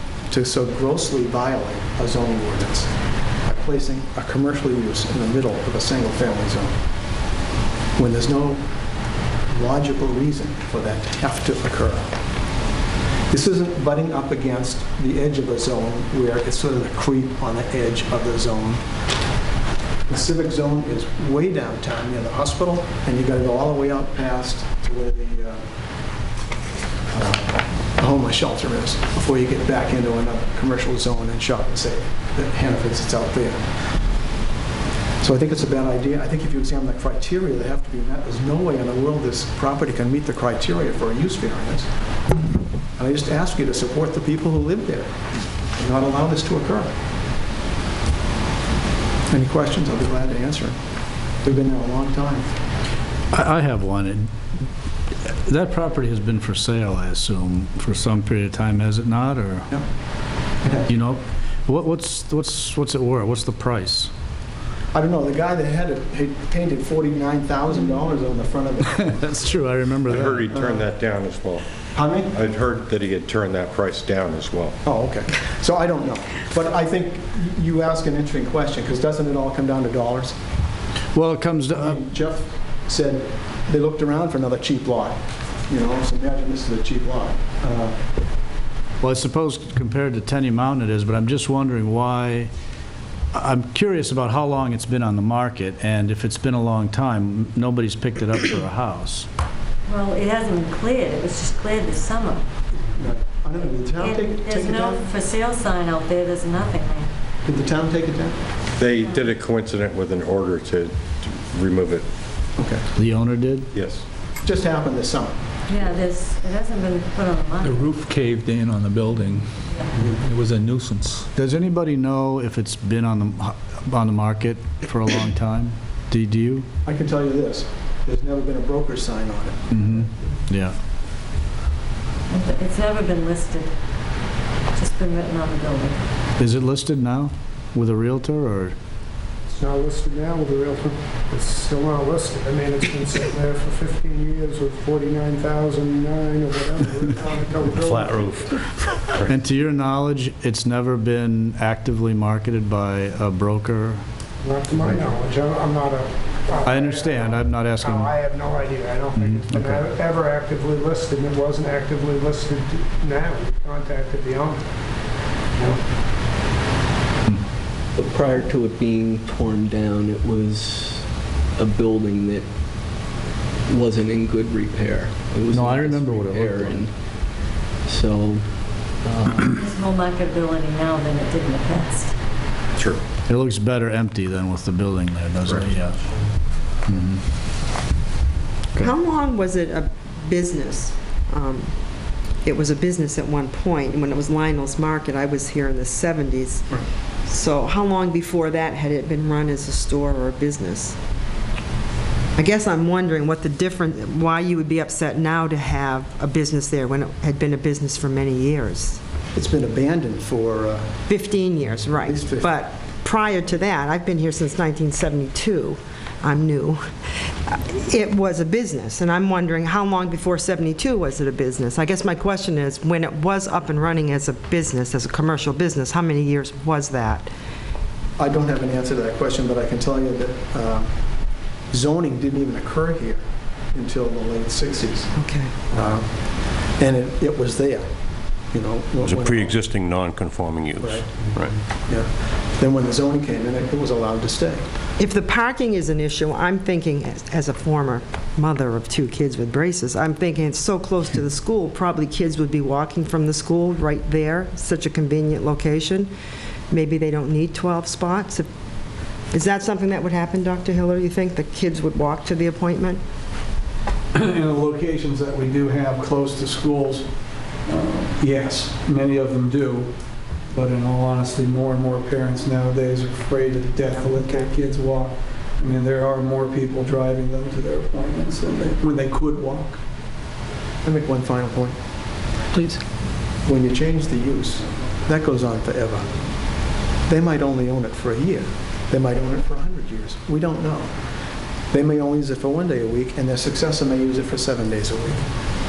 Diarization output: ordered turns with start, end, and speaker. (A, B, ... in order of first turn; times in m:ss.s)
0:00.3-0:02.9 A
0:03.4-0:06.8 A
0:08.0-0:08.6 A
0:09.5-0:12.2 A
0:13.3-0:18.8 A
0:20.1-0:25.6 A
0:27.1-0:33.7 A
0:35.2-0:41.9 A
0:43.0-0:45.1 A
0:45.8-0:46.9 A
0:49.3-0:50.8 A
0:51.4-0:52.5 A
0:53.3-0:54.3 B
0:55.2-0:59.7 B
1:00.6-1:00.9 A
1:00.9-1:04.1 B
1:04.9-1:09.2 A
1:08.9-1:10.5 B
1:10.2-1:11.6 C
1:10.5-1:10.8 A
1:11.9-1:12.3 A
1:12.3-1:14.8 C
1:14.8-1:20.4 A
1:21.1-1:22.0 B
1:21.7-1:28.0 A
1:29.0-1:32.5 B
1:33.3-1:39.3 B
1:39.9-1:42.4 D
1:42.9-1:45.0 A
1:43.6-1:47.1 D
1:47.4-1:48.4 A
1:48.8-1:52.1 C
1:49.0-1:49.3 D
1:52.6-1:52.8 A
1:52.9-1:53.7 B
1:53.7-1:54.0 C
1:54.4-1:55.4 A
1:55.7-1:57.9 D
1:57.6-2:01.3 E
2:00.0-2:00.2 A
2:01.3-2:06.6 B
2:06.8-2:09.6 A
2:09.7-2:10.7 B
2:12.3-2:13.7 D
2:14.7-2:16.0 D
2:16.4-2:18.7 B
2:19.5-2:28.3 F
2:27.7-2:34.0 B
2:34.4-2:44.6 F
2:36.6-2:38.2 B
2:39.1-2:39.8 B
2:47.9-2:52.5 G
2:53.7-2:56.9 G
2:55.5-2:56.8 B
2:57.8-2:59.5 G
2:59.5-3:02.1 D
3:03.3-3:06.0 B
3:06.8-3:07.2 B
3:08.8-3:11.7 H
3:12.4-3:16.7 H
3:17.3-3:21.0 H
3:22.4-3:29.0 H
3:29.3-3:30.9 A
3:31.1-3:36.8 H
3:32.0-3:32.6 A
3:37.5-3:47.3 H
3:48.2-3:50.9 A
3:51.7-3:55.1 A
3:55.2-3:55.5 H
3:55.7-3:56.1 A
3:56.8-3:57.9 A
3:58.5-3:59.6 A
3:59.0-4:01.5 C
4:00.8-4:04.6 A
4:05.0-4:16.1 H
4:16.7-4:18.5 H
4:19.3-4:23.0 H
4:24.1-4:27.1 I
4:27.6-4:29.9 I
4:30.5-4:39.8 I
4:40.8-4:41.8 A
4:42.5-4:42.8 G
4:43.4-4:46.1 A
4:47.1-4:50.9 A
4:51.7-4:55.2 A